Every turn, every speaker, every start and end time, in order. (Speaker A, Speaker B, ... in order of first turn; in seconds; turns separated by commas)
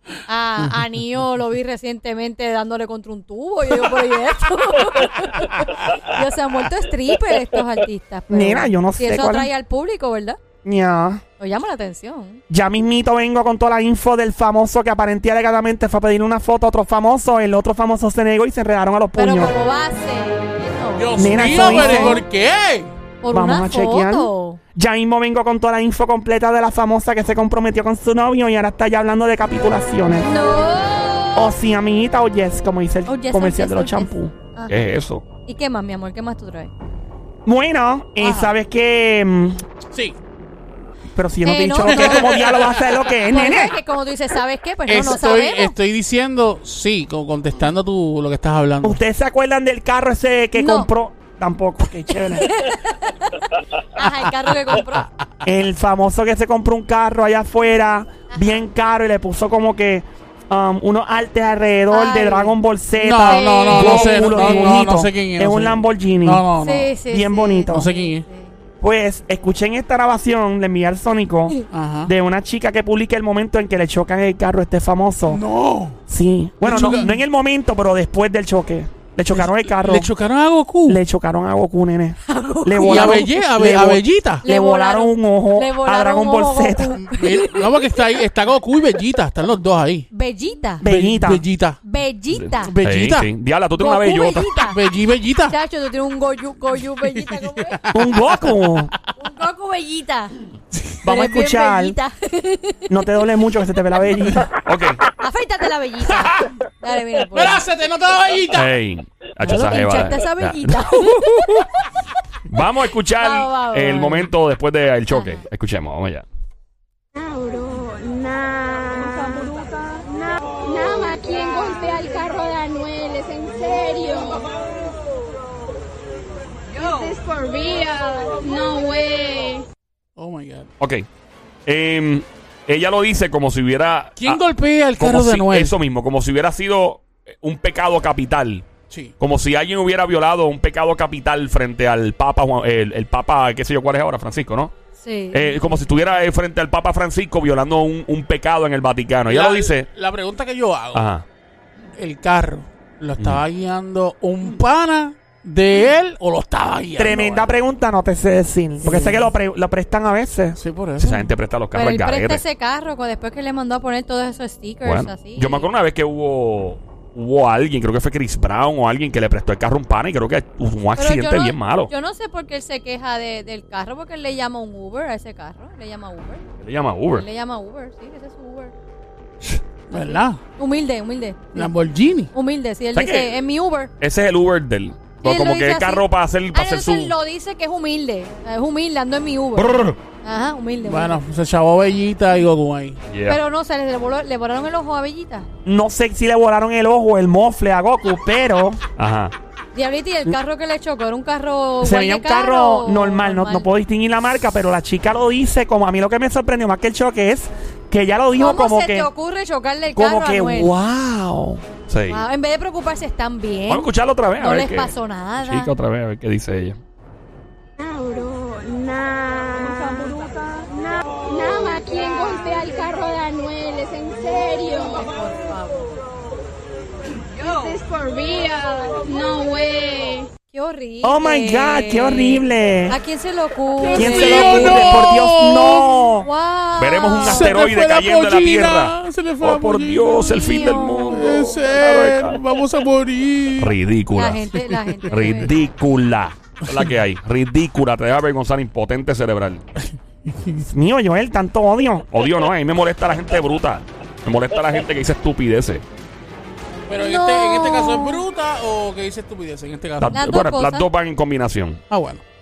Speaker A: 0.2-10.4, Speaker B: 8.3-9.5, Speaker B: 10.6-11.2, Speaker A: 11.4-12.4, Speaker B: 12.5-19.5, Speaker A: 19.1-22.2, Speaker C: 21.0-22.9, Speaker B: 21.1-22.2, Speaker A: 23.2-24.6, Speaker B: 23.3-30.3, Speaker A: 30.2-31.5, Speaker B: 31.4-34.3, Speaker A: 33.1-34.8, Speaker D: 34.7-35.2, Speaker A: 35.5-36.7, Speaker B: 37.4-39.6, Speaker C: 38.2-38.5, Speaker B: 41.1-43.8, Speaker A: 41.4-42.3, Speaker C: 41.8-43.0, Speaker A: 43.3-45.7, Speaker C: 44.9-49.0, Speaker B: 48.8-52.5, Speaker A: 50.5-50.9, Speaker A: 52.1-55.1, Speaker C: 54.0-55.3, Speaker B: 55.4-66.4, Speaker A: 58.3-58.6, Speaker A: 61.9-62.5, Speaker C: 63.0-67.0, Speaker A: 63.3-64.7, Speaker A: 66.6-68.6, Speaker B: 67.1-67.9, Speaker C: 67.7-68.2, Speaker B: 68.8-75.4, Speaker C: 71.7-72.1, Speaker C: 75.3-76.0, Speaker B: 76.1-80.1, Speaker C: 76.6-77.2, Speaker C: 79.3-81.0, Speaker B: 80.8-87.0, Speaker A: 82.3-83.3, Speaker C: 82.8-84.4, Speaker A: 84.4-88.0, Speaker C: 87.0-90.1, Speaker A: 90.1-90.8, Speaker B: 90.8-91.4, Speaker C: 90.8-91.8, Speaker A: 91.8-92.7, Speaker D: 92.3-94.6, Speaker C: 92.6-93.3, Speaker A: 93.8-94.8, Speaker C: 94.6-95.5, Speaker A: 95.5-97.8, Speaker C: 97.1-98.5, Speaker B: 97.9-98.9, Speaker A: 99.2-100.3, Speaker B: 101.0-102.0, Speaker A: 101.0-102.9, Speaker B: 102.9-104.5, Speaker D: 104.6-105.0, Speaker A: 105.2-107.6, Speaker C: 107.3-108.7, Speaker D: 108.5-111.7, Speaker A: 109.4-111.9, Speaker D: 112.5-116.2, Speaker A: 113.2-114.3, Speaker A: 115.1-115.4, Speaker E: 117.1-124.5, Speaker E: 126.7-129.7, Speaker C: 130.2-130.7, Speaker D: 130.8-131.1, Speaker D: 131.7-134.4, Speaker C: 134.2-135.8, Speaker D: 135.0-138.7, Speaker D: 139.2-144.7, Speaker A: 145.0-145.8, Speaker D: 145.3-149.9, Speaker C: 149.3-151.1, Speaker D: 150.9-151.2, Speaker C: 152.0-157.4, Speaker D: 153.2-153.4, Speaker B: 157.0-160.6, Speaker C: 158.8-159.3, Speaker C: 160.6-161.3, Speaker D: 161.0-162.4, Speaker A: 161.7-165.7, Speaker D: 164.8-171.9, Speaker A: 170.9-176.4, Speaker D: 176.6-177.2, Speaker A: 177.1-178.7, Speaker C: 179.9-180.4, Speaker A: 179.9-181.7, Speaker C: 181.5-182.3, Speaker A: 182.3-183.9, Speaker D: 182.9-183.3, Speaker D: 184.0-187.1, Speaker A: 185.2-191.2, Speaker D: 189.6-190.0, Speaker C: 190.8-193.0, Speaker D: 193.1-193.4, Speaker A: 193.3-195.5, Speaker B: 195.6-198.8, Speaker D: 199.0-199.3, Speaker A: 199.7-203.7, Speaker B: 201.8-209.1, Speaker A: 208.4-210.8, Speaker B: 209.9-211.6, Speaker D: 211.9-212.2, Speaker A: 212.1-213.9, Speaker D: 213.7-216.8, Speaker A: 214.4-215.7, Speaker E: 217.8-225.1, Speaker A: 224.9-225.9, Speaker E: 227.3-230.3, Speaker A: 230.5-235.2, Speaker B: 231.0-233.0, Speaker E: 233.8-234.7, Speaker B: 233.9-236.3, Speaker C: 234.1-235.9, Speaker A: 236.2-237.6, Speaker D: 236.8-242.4, Speaker C: 237.2-240.3, Speaker A: 240.1-241.5, Speaker C: 241.0-243.7, Speaker D: 243.6-244.5, Speaker A: 244.1-245.5, Speaker C: 244.8-245.5, Speaker D: 245.1-249.6, Speaker C: 250.3-250.6, Speaker B: 250.7-252.1, Speaker D: 252.1-255.8, Speaker C: 256.9-260.2, Speaker A: 257.0-258.2, Speaker D: 260.0-261.8, Speaker A: 260.1-260.9, Speaker C: 261.9-262.2